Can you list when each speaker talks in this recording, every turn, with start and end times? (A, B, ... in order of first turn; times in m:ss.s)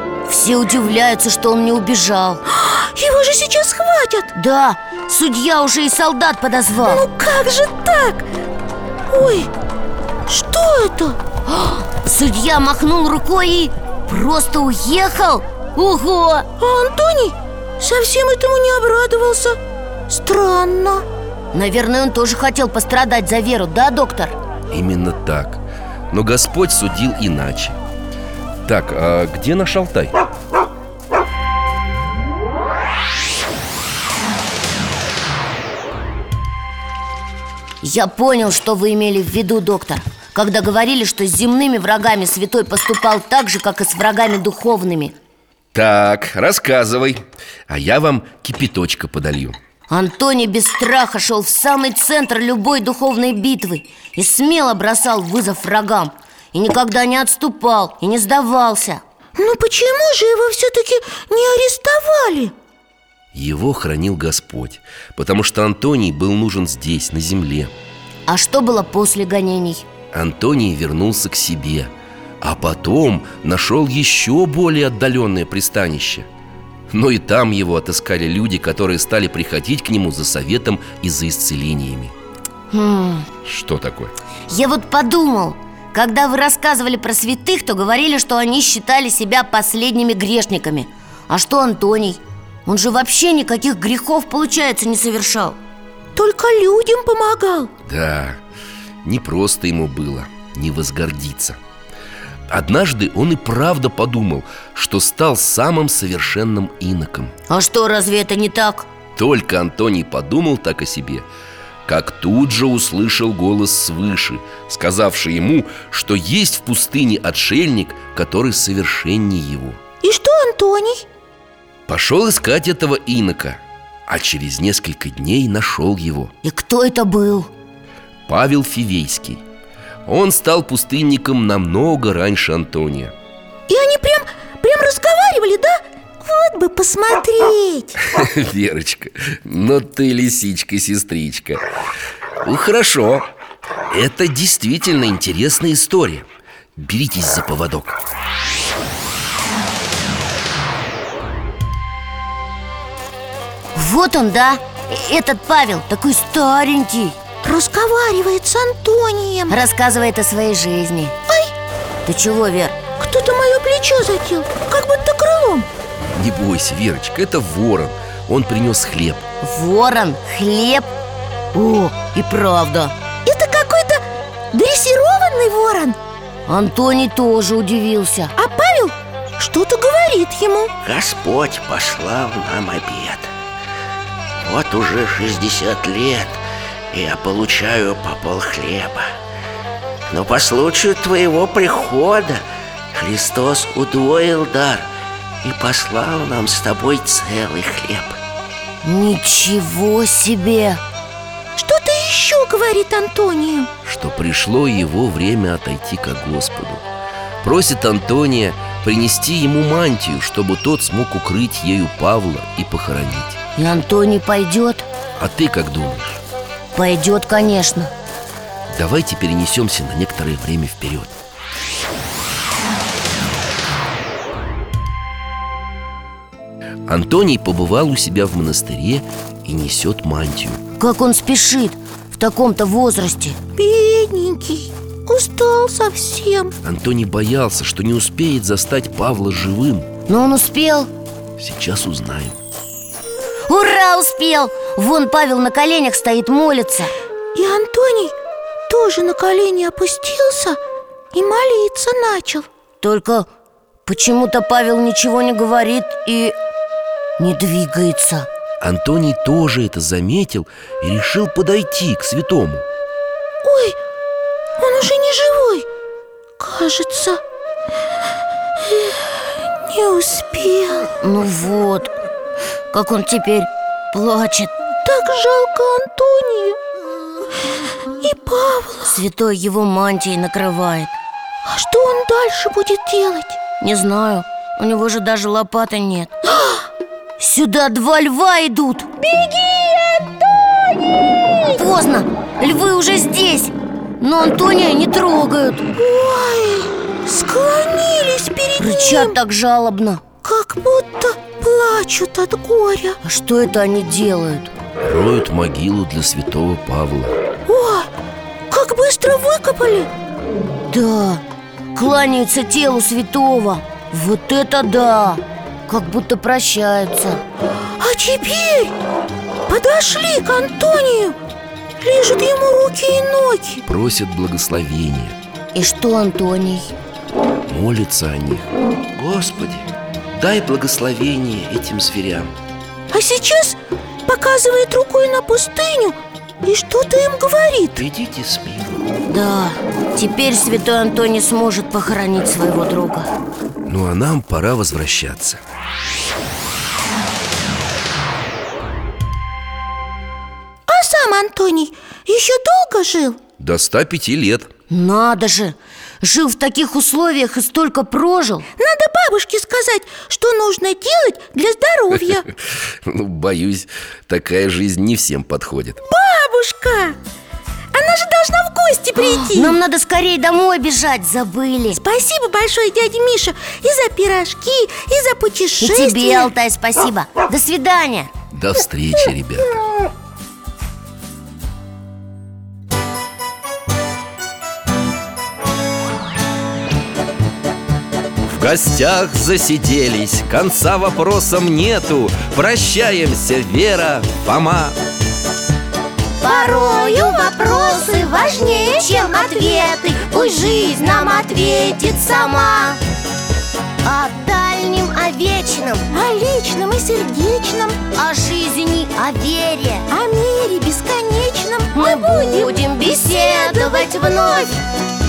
0:00.3-0:02.4 A
0:02.5-0:04.3 B
0:04.3-0:07.0 A
0:06.8-0:08.3 B
0:09.1-0:09.5 B
0:10.3-0:11.2 B
0:11.5-0:16.5 A
0:16.6-0:21.0 B
0:21.5-0:24.4 A
0:24.7-0:27.8 C
0:28.6-0:30.2 C
0:37.8-0:45.2 A
0:45.7-0:49.6 C
0:49.9-0:59.0 A
0:59.4-1:02.5 B
1:03.3-1:07.7 C
1:08.3-1:09.8 A
1:10.1-1:16.3 C
1:16.9-1:22.1 C
1:22.7-1:23.3 A
1:23.4-1:24.1 C
1:24.5-1:35.6 A
1:36.2-1:37.7 B
1:37.9-1:38.4 C
1:39.0-1:41.6 C
1:42.5-1:47.3 C
1:47.5-1:48.9 A
1:49.2-1:51.3 C
1:51.9-1:59.8 C
2:00.0-2:01.0 B
2:01.9-2:06.3 C
2:06.4-2:07.5 A
2:08.3-2:09.4 C
2:10.1-2:13.1 C
2:13.7-2:18.0 B
2:18.0-2:21.6 C
2:22.4-2:23.3 C
2:23.9-2:28.0 C
2:33.8-2:37.2 A
2:37.4-2:39.6 B
2:39.5-2:41.2 A
2:41.3-2:41.5 B
2:42.0-2:42.8 A
2:43.0-2:45.7 B
2:46.0-2:49.2 C
2:49.4-2:50.9 A
2:51.5-2:53.0 A
2:53.3-2:56.0 B
2:56.5-2:58.3 A
2:58.4-3:00.7 B
3:00.8-3:03.3 D
3:04.4-3:09.1 D
3:10.1-3:14.9 D
3:15.4-3:18.2 D
3:18.8-3:20.8 A
3:21.6-3:23.7 B
3:23.8-3:26.8 C
3:27.4-3:33.4 C
3:33.6-3:34.9 A
3:35.2-3:36.2 C
3:36.7-3:37.9 A
3:38.7-3:41.2 C
3:46.9-3:50.6 C
3:50.8-3:53.4 A
3:53.6-3:56.6 B
3:56.6-3:59.9 C
4:00.1-4:00.9 A
4:01.4-4:02.4 C
4:03.5-4:06.9 A
4:07.4-4:08.2 B
4:08.7-4:10.6 B
4:11.1-4:12.5 B
4:12.8-4:13.3 A
4:13.9-4:16.4 A
4:17.2-4:18.3 A
4:18.6-4:22.7 C
4:23.4-4:23.8 B
4:24.6-4:25.7 B
4:26.4-4:27.2 B
4:28.6-4:30.9 B
4:31.0-4:31.9 A
4:32.7-4:34.5 A
4:34.8-4:36.6 B
4:38.0-4:39.0 B
4:38.8-4:40.9 A
4:41.5-4:43.4 B
4:43.6-4:46.1 A
4:47.2-4:55.7 A
4:55.8-4:59.2 B
4:58.6-5:00.0 A
5:00.2-5:03.0 B
5:03.0-5:04.5 A
5:04.8-5:07.2 C
5:07.5-5:07.9 B
5:08.5-5:09.9 B
5:10.7-5:11.2 A
5:11.8-5:17.2 A
5:17.8-5:18.7 B
5:19.5-5:21.2 B
5:21.8-5:23.6 B
5:23.7-5:25.2 C
5:25.6-5:26.8 A
5:27.5-5:32.3 C
5:32.9-5:37.8 B
5:37.8-5:38.8 C
5:39.1-5:43.1 A
5:43.7-5:45.4 C
5:50.7-5:53.2 B
5:53.4-5:54.5 C
5:54.7-5:58.5 A
5:58.6-6:02.3 B
6:02.8-6:05.8 C
6:05.9-6:07.0 B
6:07.7-6:09.6 B
6:09.0-6:11.8 A
6:11.7-6:16.3 B
6:15.6-6:18.1 A
6:18.3-6:19.6 C
6:28.2-6:34.8 C
6:36.2-6:42.8 A
6:36.2-6:40.6 B
6:43.8-6:45.9 A
6:45.9-6:47.8 B
6:47.9-6:49.9 A
6:49.9-6:54.4 B
6:51.7-6:54.6 A